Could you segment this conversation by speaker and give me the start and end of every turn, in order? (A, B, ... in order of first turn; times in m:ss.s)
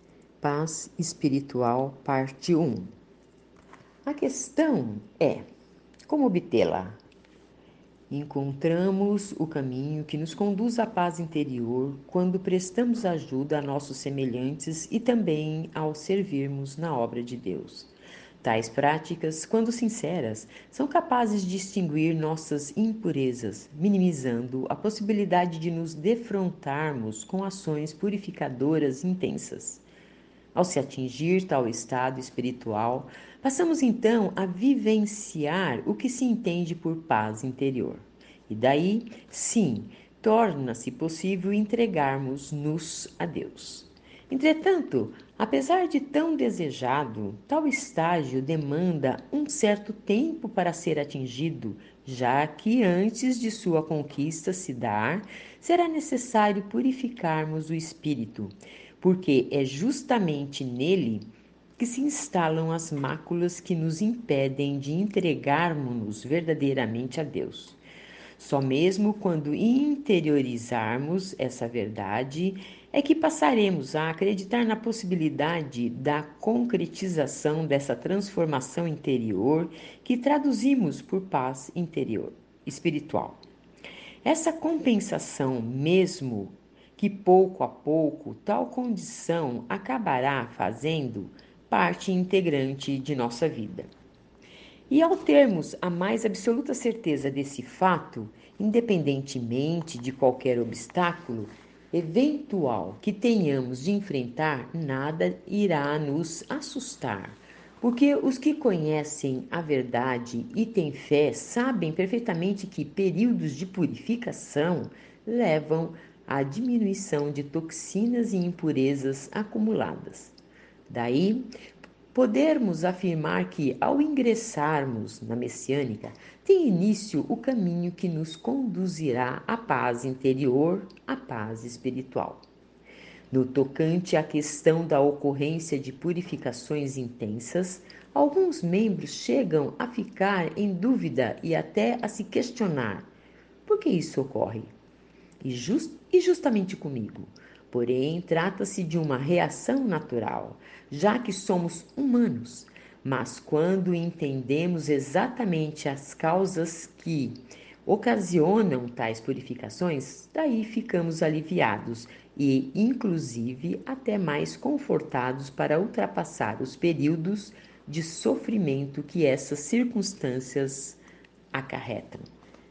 0:00.4-0:02.9 A
0:04.0-0:05.4 A
0:06.1-0:07.0 A
0:08.1-0:29.8 A
0:30.5-1:07.8 A
1:08.4-1:23.4 A
1:24.2-1:33.9 A
1:34.9-2:00.3 A
2:00.9-2:01.5 A
2:02.1-2:12.4 A
2:13.3-2:23.1 A
2:23.6-2:24.7 A
2:25.4-2:51.0 A
2:51.5-2:52.2 A